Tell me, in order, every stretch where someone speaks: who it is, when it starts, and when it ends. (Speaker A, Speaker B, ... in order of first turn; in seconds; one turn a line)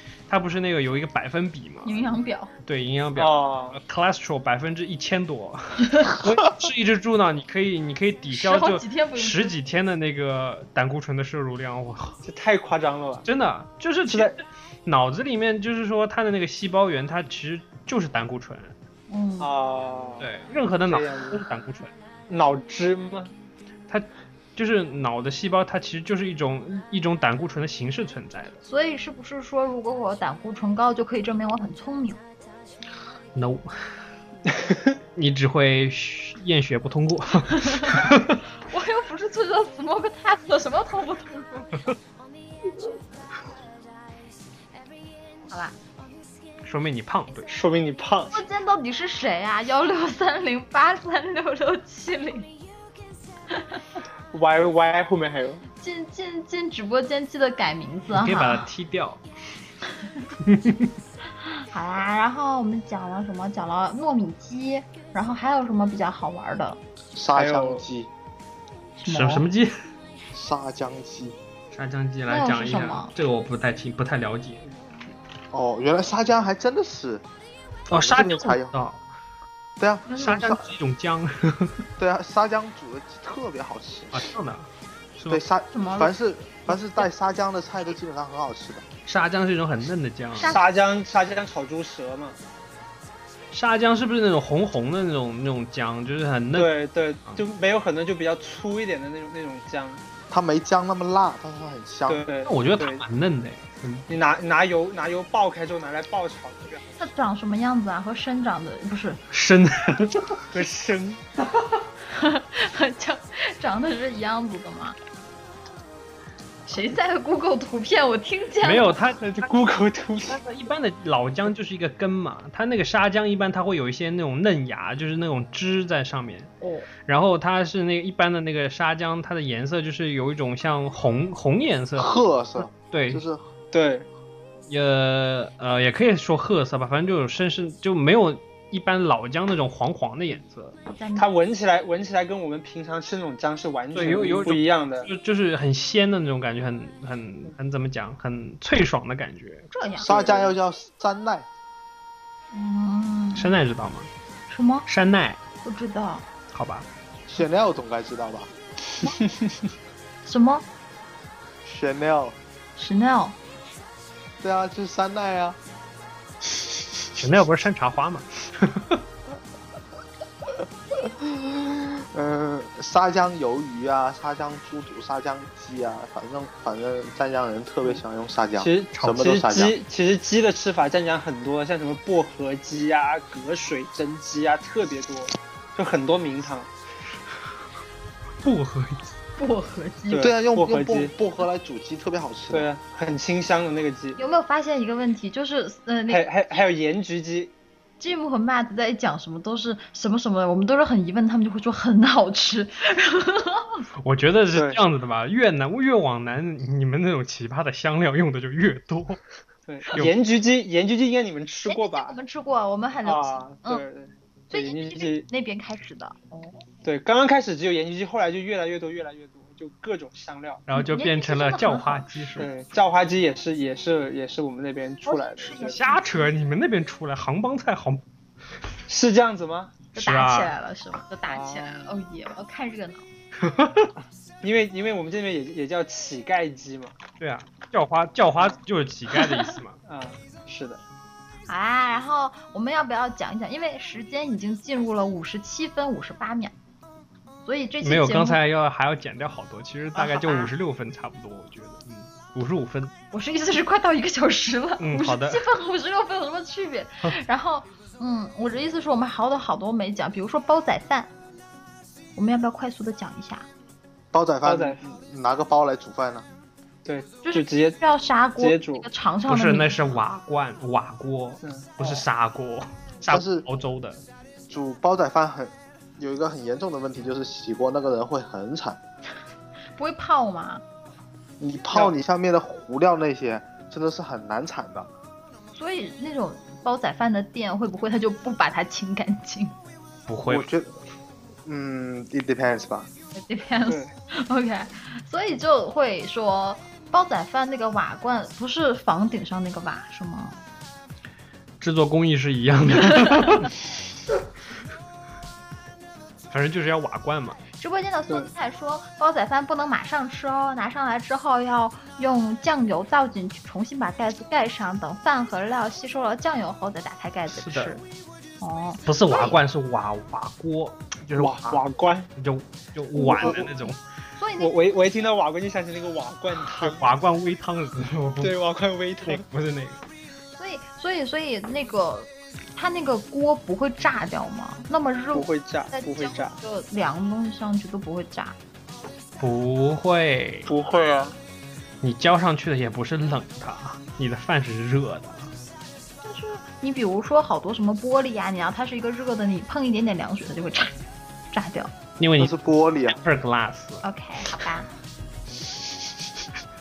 Speaker A: 0.3-2.0
Speaker B: 1.8-2.5
Speaker A: 2.6-12.2
Speaker C: 3.1-3.8
Speaker B: 8.3-9.5
Speaker C: 12.2-13.2
Speaker A: 13.2-18.7
Speaker C: 14.1-14.3
Speaker B: 19.1-19.5
Speaker C: 19.4-20.3
Speaker A: 20.2-21.9
Speaker C: 20.9-21.4
Speaker C: 22.3-23.3
Speaker A: 23.9-28.6
Speaker B: 28.6-32.2
Speaker A: 33.3-33.7
Speaker A: 35.1-38.4
Speaker B: 37.5-38.1
Speaker B: 38.7-41.9
Speaker B: 45.5-45.7
Speaker A: 46.6-47.5
Speaker C: 47.5-48.4
Speaker B: 48.3-52.5
Speaker C: 54.3-55.6
Speaker B: 55.8-58.7
Speaker A: 58.1-59.2
Speaker A: 60.4-60.9
Speaker B: 61.7-66.8
Speaker D: 67.1-68.1
Speaker C: 67.3-67.8
Speaker B: 69.0-69.5
Speaker A: 69.0-69.7
Speaker D: 70.3-71.4
Speaker A: 71.7-74.7
Speaker B: 72.3-73.1
Speaker D: 75.5-77.2
Speaker D: 77.9-78.7
Speaker A: 77.9-79.0
Speaker D: 79.8-80.6
Speaker A: 80.1-81.8
Speaker D: 82.0-84.3
Speaker A: 84.1-85.4
Speaker D: 85.3-88.8
Speaker B: 85.7-86.1
Speaker B: 86.7-87.0
Speaker A: 89.0-90.6
Speaker B: 90.4-90.6
Speaker C: 90.4-92.4
Speaker A: 93.5-96.7
Speaker C: 96.5-100.0
Speaker D: 100.3-102.2
Speaker C: 102.1-103.0
Speaker A: 102.5-104.0
Speaker C: 104.1-107.1
Speaker B: 107.0-109.2
Speaker A: 109.3-110.4
Speaker C: 110.5-111.2
Speaker B: 112.1-115.0
Speaker B: 116.7-119.0
Speaker A: 118.6-119.5
Speaker C: 119.2-120.4
Speaker A: 120.2-126.5
Speaker B: 126.6-126.9
Speaker A: 127.0-132.2
Speaker D: 132.0-133.4
Speaker A: 132.9-133.2
Speaker C: 133.7-134.1
Speaker A: 134.7-140.8
Speaker B: 140.9-141.3
Speaker C: 141.2-145.1
Speaker A: 143.9-149.7
Speaker B: 149.7-150.3
Speaker D: 150.0-151.5
Speaker C: 150.1-150.5
Speaker B: 152.5-153.5
Speaker A: 153.3-154.1
Speaker B: 154.5-154.8
Speaker A: 154.9-155.4
Speaker B: 155.6-156.2
Speaker A: 156.5-156.9
Speaker D: 157.3-158.5
Speaker B: 160.2-160.6
Speaker D: 161.6-162.3
Speaker B: 162.8-163.3
Speaker D: 164.4-165.6
Speaker A: 167.2-169.0
Speaker D: 171.0-179.8
Speaker C: 178.6-186.7
Speaker A: 178.9-179.2
Speaker A: 188.4-189.0
Speaker B: 189.4-190.3
Speaker C: 190.1-191.1
Speaker D: 190.2-192.7
Speaker C: 192.5-194.2
Speaker B: 194.2-196.3
Speaker C: 196.1-197.5
Speaker B: 198.0-203.8
Speaker A: 204.0-209.2
Speaker C: 204.5-204.8
Speaker C: 209.7-212.2
Speaker B: 211.6-213.8
Speaker C: 213.0-215.3
Speaker B: 214.5-216.5
Speaker C: 216.8-220.6
Speaker A: 220.7-222.5
Speaker B: 220.7-222.4
Speaker C: 222.4-225.8
Speaker B: 225.1-226.3
Speaker A: 225.7-228.0
Speaker C: 228.9-229.8
Speaker B: 229.9-233.0
Speaker A: 230.0-230.5
Speaker C: 231.3-231.9
Speaker A: 233.4-233.9
Speaker C: 234.4-236.9
Speaker A: 237.2-239.8
Speaker C: 239.8-240.8
Speaker B: 241.5-246.5
Speaker B: 247.4-248.4
Speaker A: 247.8-252.9
Speaker B: 249.9-250.5
Speaker B: 253.1-261.1
Speaker A: 254.8-255.4
Speaker B: 262.1-263.5
Speaker D: 264.1-266.2
Speaker C: 264.4-264.8
Speaker C: 266.8-267.8
Speaker B: 267.2-270.0
Speaker C: 268.4-268.9
Speaker A: 269.3-274.0
Speaker C: 271.4-271.7
Speaker D: 273.1-273.4
Speaker D: 274.5-278.8
Speaker B: 279.8-280.6
Speaker D: 281.4-284.9
Speaker B: 285.5-289.6
Speaker A: 290.1-290.5
Speaker D: 290.2-290.7
Speaker D: 291.4-292.9
Speaker B: 293.1-300.4
Speaker A: 301.6-303.5
Speaker A: 306.3-307.4
Speaker B: 307.6-317.8
Speaker A: 317.4-317.8
Speaker B: 318.4-319.4
Speaker A: 318.9-321.6
Speaker C: 321.2-322.1
Speaker A: 322.2-323.8
Speaker B: 322.9-324.5
Speaker C: 324.4-326.9
Speaker A: 326.4-328.3
Speaker C: 328.2-329.2
Speaker A: 329.0-329.8
Speaker B: 330.4-338.4
Speaker C: 335.1-336.4
Speaker A: 339.2-340.5
Speaker C: 340.4-341.1
Speaker A: 341.8-345.3
Speaker B: 346.0-350.7
Speaker B: 351.3-351.7
Speaker A: 352.0-353.8
Speaker D: 352.2-353.0
Speaker B: 353.8-354.7